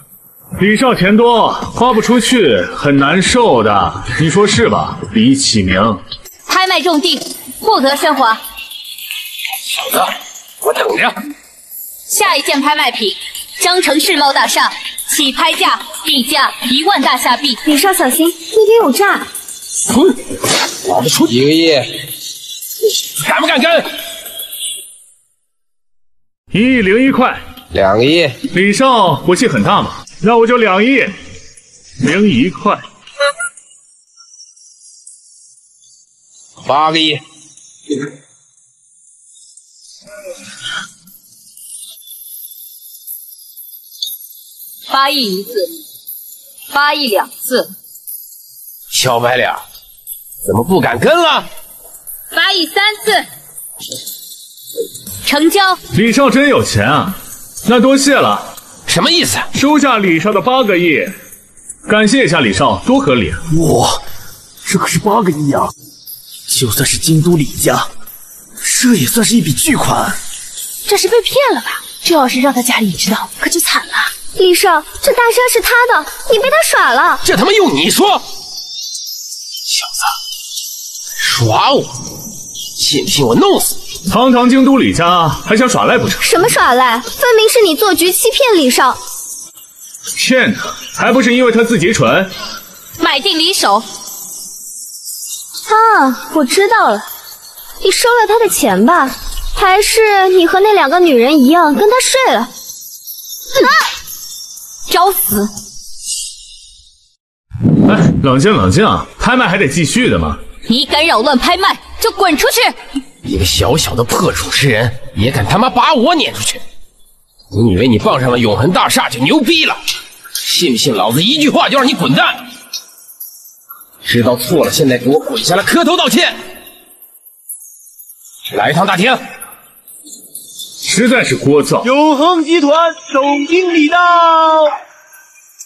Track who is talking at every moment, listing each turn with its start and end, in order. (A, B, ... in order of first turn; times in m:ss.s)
0:00.6-0:06.0 A
0:06.5-0:08.4 B
0:09.8-0:11.2 C
0:12.1-0:17.6 B
0:17.7-0:19.3 D
0:19.9-0:20.2 C
0:20.8-0:21.9 C
0:23.2-0:23.9 C
0:26.5-0:27.4 A
0:27.7-0:28.4 C
0:28.5-0:31.1 A
0:32.0-0:32.8 A
0:36.6-0:37.2 C
0:44.9-0:45.7 B
0:46.7-0:47.7 B
0:48.9-0:49.6 C
0:50.4-0:51.4 C
0:52.3-0:53.2 B
0:55.2-0:55.8 B
0:55.9-0:58.5 A
0:58.9-0:59.5 C
0:59.5-1:01.1 A
1:01.8-1:03.4 A
1:03.5-1:04.0 E
1:04.6-1:05.7 E
1:06.5-1:07.9 E
1:08.6-1:10.2 E
1:10.8-1:14.1 F
1:14.3-1:17.2 D
1:17.2-1:18.2 C
1:21.2-1:22.0 C
1:22.8-1:23.8 C
1:24.1-1:26.2 A
1:26.2-1:29.0 D
1:30.2-1:32.3 A
1:33.0-1:33.8 B
1:35.7-1:37.0 D
1:37.8-1:42.5 D
1:44.9-1:45.5 B
1:47.8-1:50.4 A
1:50.7-1:52.7 B
1:53.2-1:56.6 C
1:57.5-1:59.8 C
2:00.4-2:02.4 C
2:04.0-2:06.4 C
2:08.5-2:09.2 C
2:10.8-2:11.9 A
2:12.0-2:14.3 E